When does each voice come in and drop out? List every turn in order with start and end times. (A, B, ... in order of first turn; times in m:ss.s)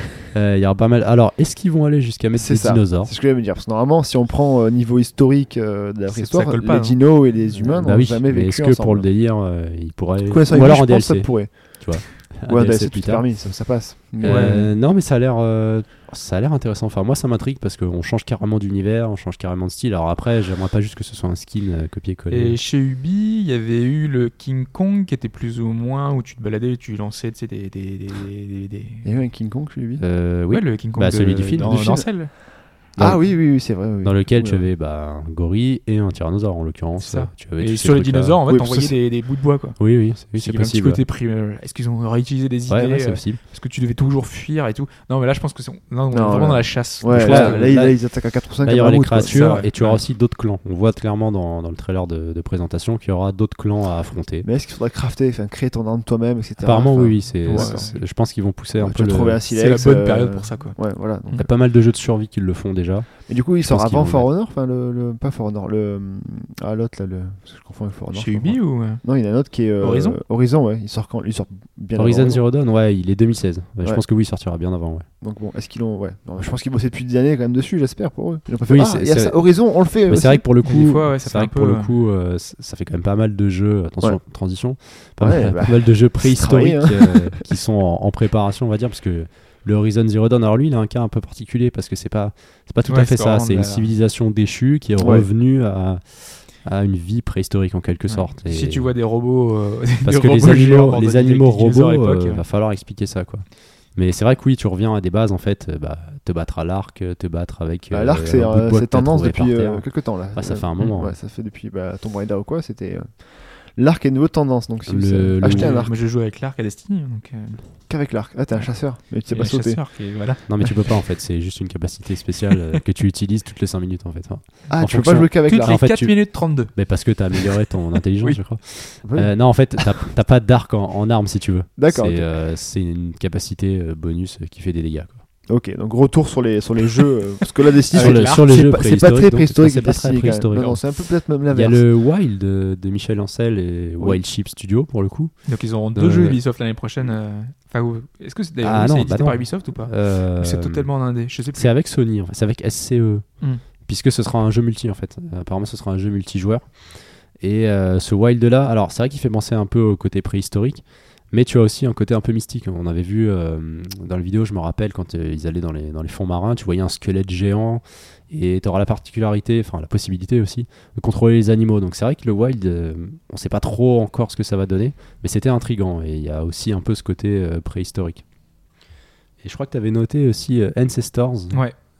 0:00.3-0:03.1 A
0:02.3-0:09.1 B
0:06.1-0:07.3 C
0:07.6-0:13.3 A
0:10.2-0:14.7 B
0:14.2-0:22.6 A
0:14.2-0:14.6 C
0:22.3-0:29.1 C
0:29.0-0:30.0 B
0:30.0-0:31.9 A
0:30.5-0:32.3 C
0:31.6-0:34.7 B
0:33.0-0:38.4 A
0:37.0-0:47.7 C
0:38.5-0:38.9 B
0:39.8-0:41.0 A
0:42.7-0:43.4 A
0:46.1-0:49.6 B
0:47.1-0:54.5 A
0:49.3-0:50.0 C
0:54.4-0:58.1 B
0:56.6-0:59.4 A
0:57.4-0:58.0 C
0:58.8-1:01.5 B
0:59.5-1:01.5 C
1:01.4-1:04.3 A
1:03.2-1:12.4 B
1:08.1-1:09.0 C
1:09.8-1:10.2 C
1:12.0-1:15.0 A
1:15.2-1:20.4 B
1:18.7-1:38.9 A
1:20.6-1:21.9 C
1:25.2-1:27.4 B
1:32.9-1:33.9 C
1:35.0-1:35.3 B
1:38.1-1:42.4 C
1:40.0-1:51.1 A
1:47.9-1:55.9 B
1:54.9-1:55.8 A
1:55.4-1:57.6 C
1:57.9-1:59.8 B
1:59.3-2:00.9 C
2:00.5-2:15.2 A
2:04.7-2:05.8 B
2:05.4-2:06.7 C
2:09.0-2:09.5 B
2:11.8-2:12.3 B
2:15.5-2:21.8 B
2:17.9-2:18.5 C
2:17.9-2:26.4 A
2:25.4-2:31.7 C
2:28.6-2:30.9 A
2:31.5-2:58.2 A
2:59.4-3:01.6 A